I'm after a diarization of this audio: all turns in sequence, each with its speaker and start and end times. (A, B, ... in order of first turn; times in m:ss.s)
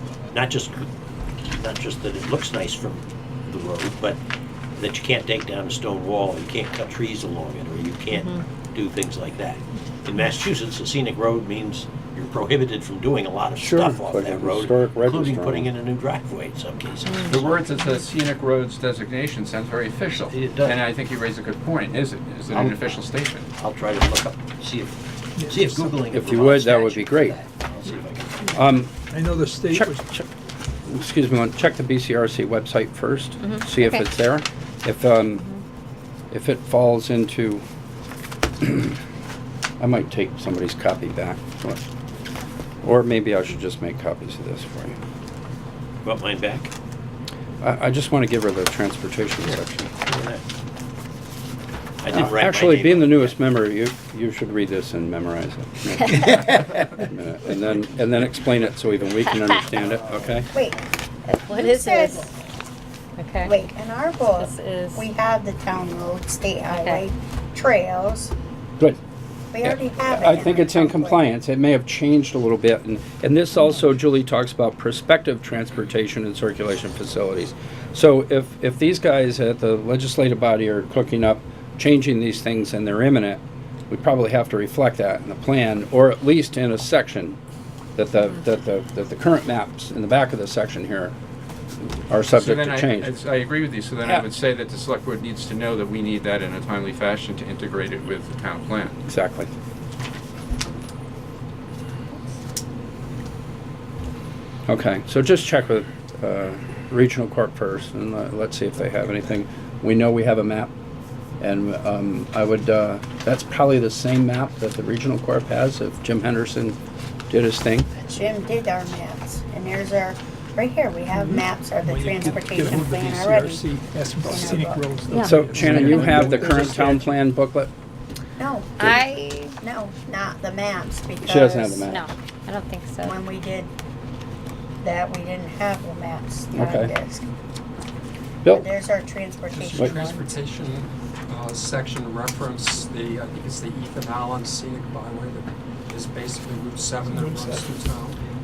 0:00.3-0:00.9 A
0:01.5-0:04.2 A
0:04.8-0:17.6 A
0:13.6-0:15.7 B
0:17.3-0:23.5 C
0:20.3-0:20.8 A
0:22.5-0:23.0 A
0:23.6-0:28.6 A
0:25.4-0:25.9 D
0:26.1-0:27.4 B
0:28.5-0:28.9 B
0:29.1-0:30.0 D
0:29.7-0:30.3 B
0:30.8-0:35.5 B
0:33.4-0:34.0 E
0:36.3-0:37.6 B
0:38.6-0:39.0 B
0:39.8-0:41.8 B
0:42.8-0:45.0 B
0:46.0-0:46.7 A
0:47.6-0:49.9 B
0:49.5-0:50.4 A
0:52.0-0:53.4 A
0:52.1-1:00.5 B
1:00.5-1:00.8 F
1:01.3-1:02.3 D
1:01.4-1:02.3 F
1:03.2-1:03.5 D
1:03.4-1:08.3 F
1:04.4-1:05.0 D
1:06.7-1:07.0 D
1:09.5-1:11.2 F
1:09.6-1:27.4 B
1:28.0-1:31.1 B
1:32.1-1:33.1 B
1:32.3-1:39.0 C
1:39.1-1:39.5 B
1:44.7-1:50.7 B
1:51.4-1:56.8 B
1:57.3-1:57.9 B
1:58.0-2:03.7 F
2:01.2-2:07.0 D
2:04.2-2:06.2 F
2:05.1-2:05.5 E
2:05.2-2:07.7 B
2:08.4-2:09.0 F
2:08.9-2:09.5 D
2:08.9-2:09.5 E
2:09.6-2:11.8 F
2:11.2-2:12.1 B
2:11.8-2:13.1 E
2:13.0-2:13.7 F
2:14.8-2:17.2 F
2:16.5-2:16.9 B
2:18.5-2:20.4 F
2:19.5-2:28.2 G
2:27.1-2:27.7 D